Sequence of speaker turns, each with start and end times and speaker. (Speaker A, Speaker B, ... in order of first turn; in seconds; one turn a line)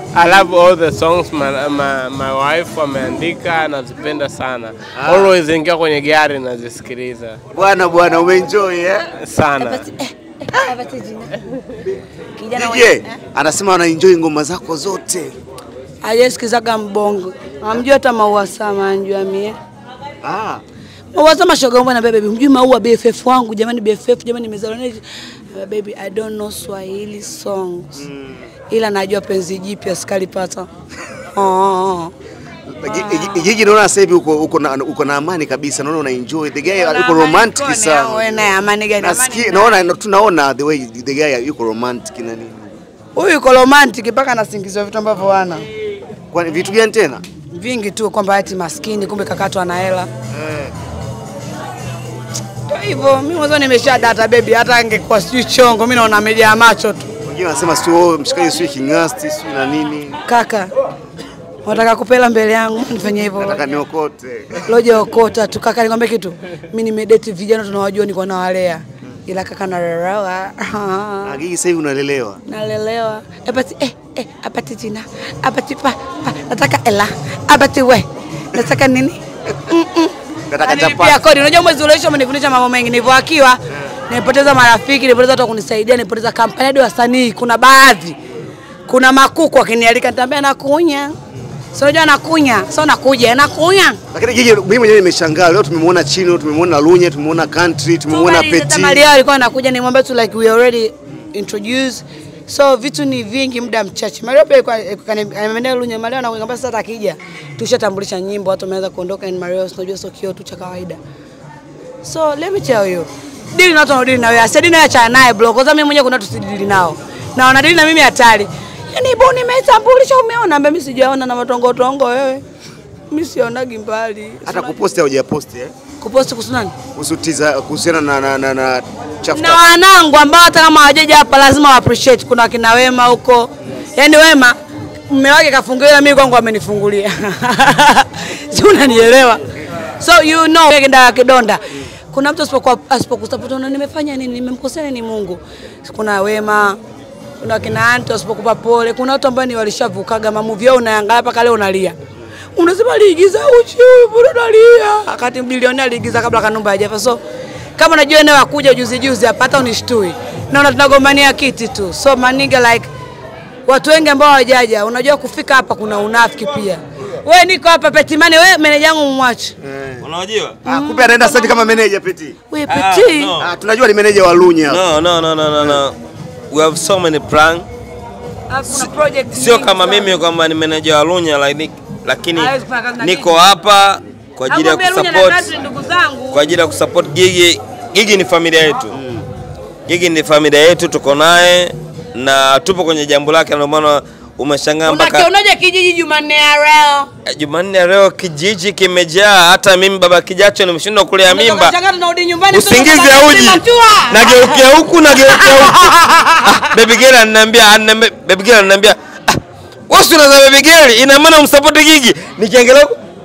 Speaker A: 0.1-7.4
Speaker B: 5.0-5.3
Speaker B: 7.5-9.1
Speaker A: 9.2-9.9
Speaker C: 9.6-11.4
Speaker C: 12.4-13.2
Speaker B: 12.6-15.3
Speaker C: 16.0-19.6
Speaker B: 20.2-20.6
Speaker C: 21.1-25.0
Speaker C: 25.5-28.0
Speaker B: 28.0-28.5
Speaker C: 28.7-30.7
Speaker C: 31.3-32.1
Speaker B: 32.7-42.7
Speaker C: 32.9-33.5
Speaker C: 36.7-39.8
Speaker C: 43.1-45.6
Speaker B: 46.3-47.2
Speaker C: 47.5-50.1
Speaker B: 50.3-50.7
Speaker C: 52.7-57.1
Speaker B: 57.2-60.2
Speaker C: 60.3-60.7
Speaker C: 61.6-63.6
Speaker B: 63.4-64.6
Speaker C: 64.7-71.4
Speaker B: 71.3-72.4
Speaker C: 72.5-88.2
Speaker B: 80.5-81.2
Speaker C: 88.9-91.2
Speaker C: 91.7-94.0
Speaker B: 94.1-99.0
Speaker C: 98.1-111.0
Speaker C: 112.0-122.4
Speaker C: 123.1-124.8
Speaker B: 124.5-125.7
Speaker C: 126.0-126.7
Speaker B: 127.0-129.6
Speaker C: 129.3-134.6
Speaker C: 135.1-139.4
Speaker C: 140.0-146.8
Speaker C: 147.4-152.0
Speaker C: 152.6-157.2
Speaker C: 157.8-162.9
Speaker C: 163.7-169.5
Speaker B: 169.6-170.1
Speaker D: 170.0-170.6
Speaker B: 170.7-172.4
Speaker C: 170.7-171.6
Speaker C: 172.5-173.3
Speaker D: 172.7-173.5
Speaker B: 173.4-174.8
Speaker D: 174.7-175.9
Speaker D: 176.5-177.7
Speaker C: 178.5-180.1
Speaker D: 178.7-185.5
Speaker C: 182.3-183.4
Speaker C: 184.5-186.4
Speaker D: 186.3-188.9
Speaker B: 188.9-189.2
Speaker D: 189.9-195.3
Speaker C: 194.8-197.1
Speaker D: 197.3-201.7
Speaker C: 201.3-206.7
Speaker D: 202.5-212.9